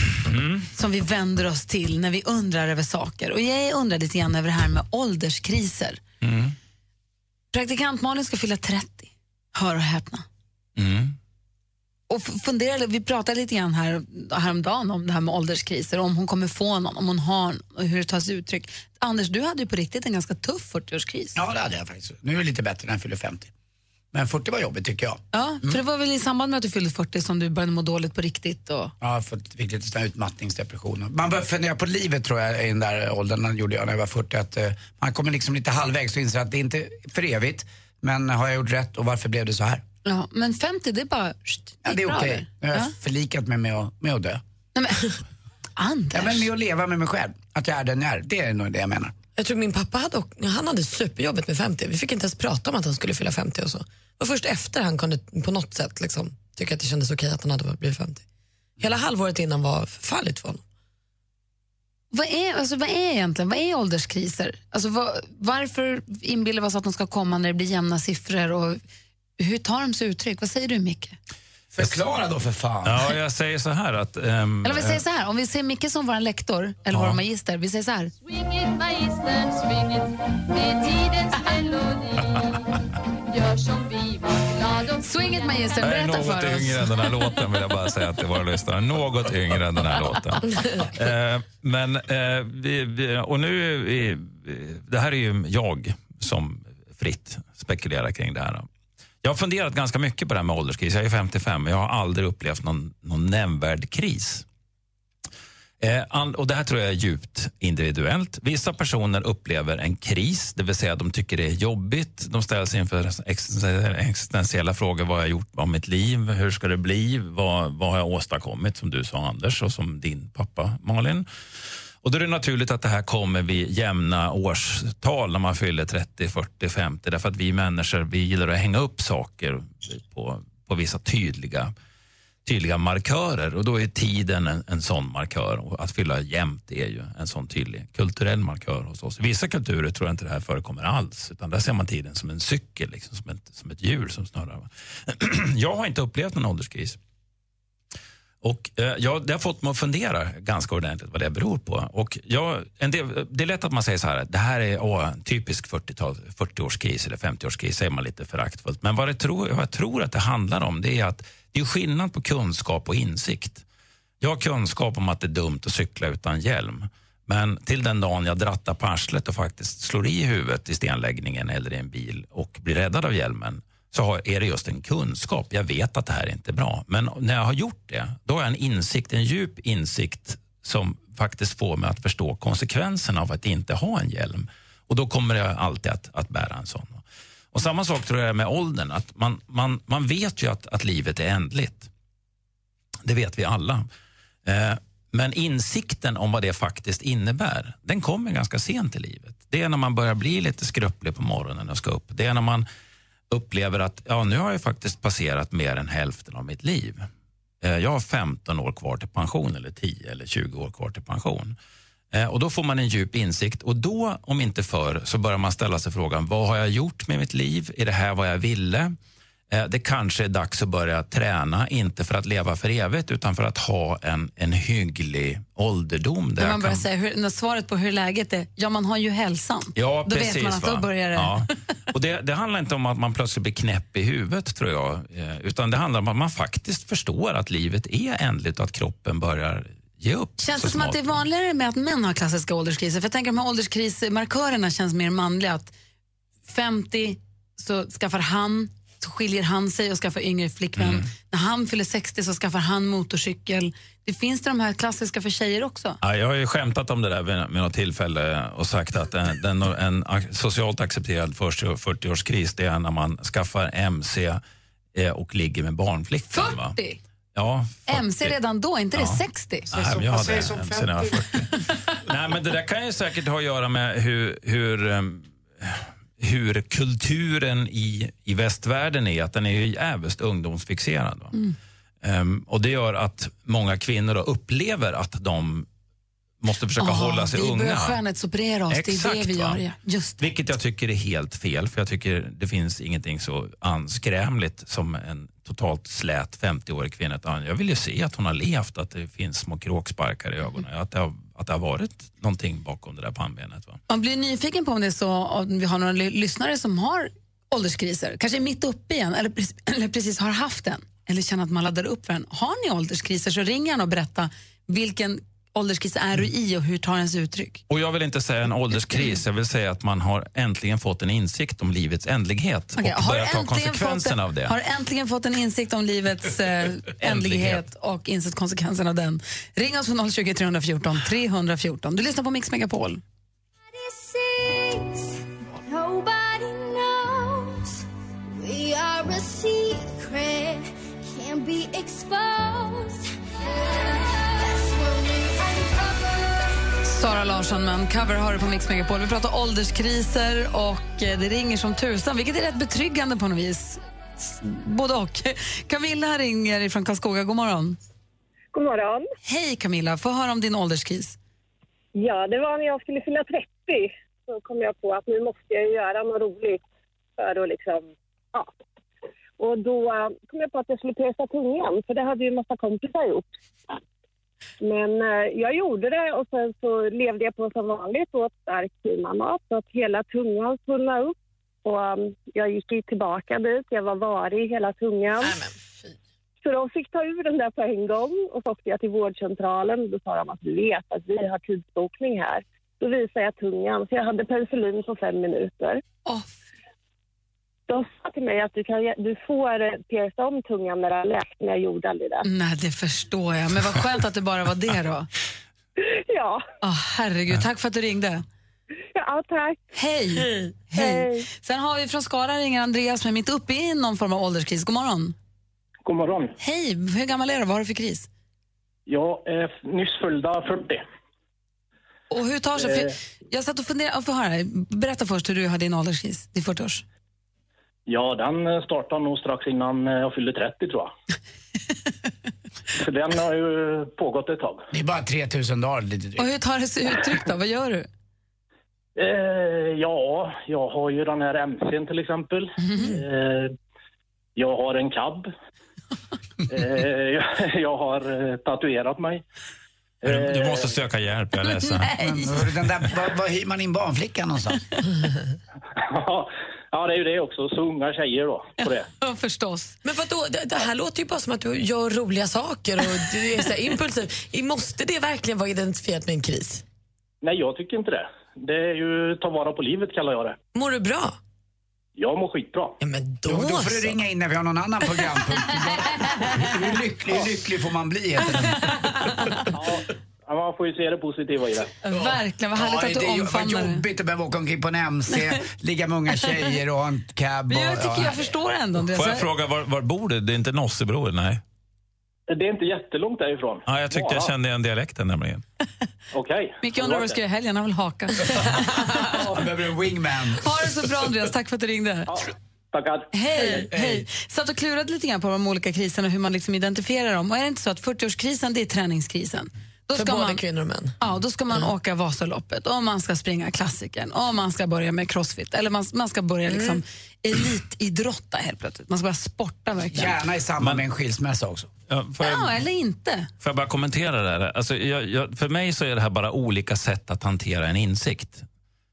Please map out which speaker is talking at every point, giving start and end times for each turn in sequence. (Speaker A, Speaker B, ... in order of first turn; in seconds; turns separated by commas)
Speaker A: 0.2-0.7, Speaker B: 0.7-6.0, Speaker A: 6.2-6.5, Speaker B: 7.5-10.2, Speaker A: 10.8-11.1, Speaker B: 12.1-21.4, Speaker C: 21.4-23.5, Speaker C: 24.1-25.8, Speaker B: 25.3-28.9, Speaker C: 29.0-39.8, Speaker B: 40.0-42.9, Speaker C: 41.8-44.4, Speaker B: 44.7-45.1, Speaker B: 45.8-46.5, Speaker C: 46.1-49.1, Speaker D: 49.4-58.2, Speaker D: 58.8-60.6, Speaker B: 62.1-68.8, Speaker B: 69.4-71.2, Speaker C: 71.7-73.1, Speaker A: 72.8-75.0, Speaker B: 74.6-78.1, Speaker A: 76.9-77.2, Speaker E: 78.2-82.6, Speaker E: 83.3-85.6, Speaker B: 85.0-86.9, Speaker A: 85.8-98.7, Speaker D: 90.5-90.8, Speaker A: 99.2-104.4, Speaker A: 105.8-121.2, Speaker A: 122.0-131.7, Speaker A: 132.4-147.0, Speaker A: 148.4-163.6, Speaker A: 164.2-191.9, Speaker A: 193.0-193.9, Speaker A: 194.4-202.7, Speaker A: 203.3-207.1, Speaker A: 207.6-211.6, Speaker A: 212.1-218.9, Speaker A: 219.5-226.8, Speaker B: 226.4-231.5, Speaker A: 229.7-241.2, Speaker B: 240.4-245.7, Speaker B: 246.5-256.0, Speaker A: 250.8-251.1, Speaker A: 256.0-264.4, Speaker A: 264.9-266.8, Speaker B: 266.3-267.0, Speaker A: 267.3-268.4, Speaker B: 267.9-269.7, Speaker A: 268.9-271.5, Speaker C: 269.7-271.2, Speaker A: 272.1-281.4, Speaker A: 282.0-285.7, Speaker A: 286.4-288.0, Speaker B: 286.8-290.2, Speaker A: 288.7-289.6, Speaker A: 290.2-303.8, Speaker B: 303.9-317.6, Speaker A: 317.7-324.6, Speaker B: 322.8-333.0, Speaker A: 327.0-327.6, Speaker E: 333.7-337.8, Speaker E: 338.4-346.5, Speaker B: 346.8-357.8, Speaker F: 358.5-359.1, Speaker B: 359.2-361.2, Speaker F: 361.9-366.6, Speaker F: 367.2-368.6, Speaker F: 369.4-373.8, Speaker F: 374.6-385.4, Speaker F: 386.4-395.8, Speaker B: 396.1-396.4, Speaker F: 397.7-402.2, Speaker B: 402.2-405.1, Speaker F: 405.8-406.4, Speaker B: 406.6-408.2, Speaker F: 408.9-409.6, Speaker B: 409.7-415.1, Speaker F: 410.7-411.2, Speaker G: 415.9-416.3, Speaker B: 416.4-418.1, Speaker G: 418.9-420.8, Speaker B: 422.1-426.8, Speaker G: 422.6-422.9, Speaker G: 427.9-430.9, Speaker G: 432.8-434.6, Speaker C: 434.7-436.3, Speaker B: 436.2-437.9, Speaker G: 438.9-443.5, Speaker B: 442.6-443.0, Speaker G: 444.4-445.3, Speaker G: 446.5-449.2, Speaker G: 450.0-450.8, Speaker A: 450.1-452.0, Speaker B: 451.8-452.2, Speaker C: 452.0-454.6, Speaker G: 455.9-458.9, Speaker B: 459.0-459.8, Speaker D: 459.8-466.6, Speaker G: 467.2-470.4, Speaker D: 470.5-471.2, Speaker G: 472.0-472.8, Speaker D: 472.8-474.0, Speaker C: 473.2-478.6, Speaker G: 479.5-481.7, Speaker B: 481.8-483.8, Speaker C: 481.9-488.3, Speaker B: 487.5-489.3, Speaker A: 488.9-491.4, Speaker G: 492.3-494.3, Speaker A: 493.6-495.4, Speaker G: 496.1-497.2, Speaker B: 496.6-499.0, Speaker C: 499.0-500.4, Speaker B: 500.4-502.1, Speaker G: 502.1-503.1, Speaker B: 503.1-510.4, Speaker C: 503.7-504.0, Speaker D: 509.9-510.9, Speaker B: 511.0-520.2, Speaker D: 516.5-516.8, Speaker C: 519.9-521.7, Speaker A: 520.6-520.8, Speaker A: 521.9-522.6, Speaker B: 522.2-523.3, Speaker A: 523.4-528.5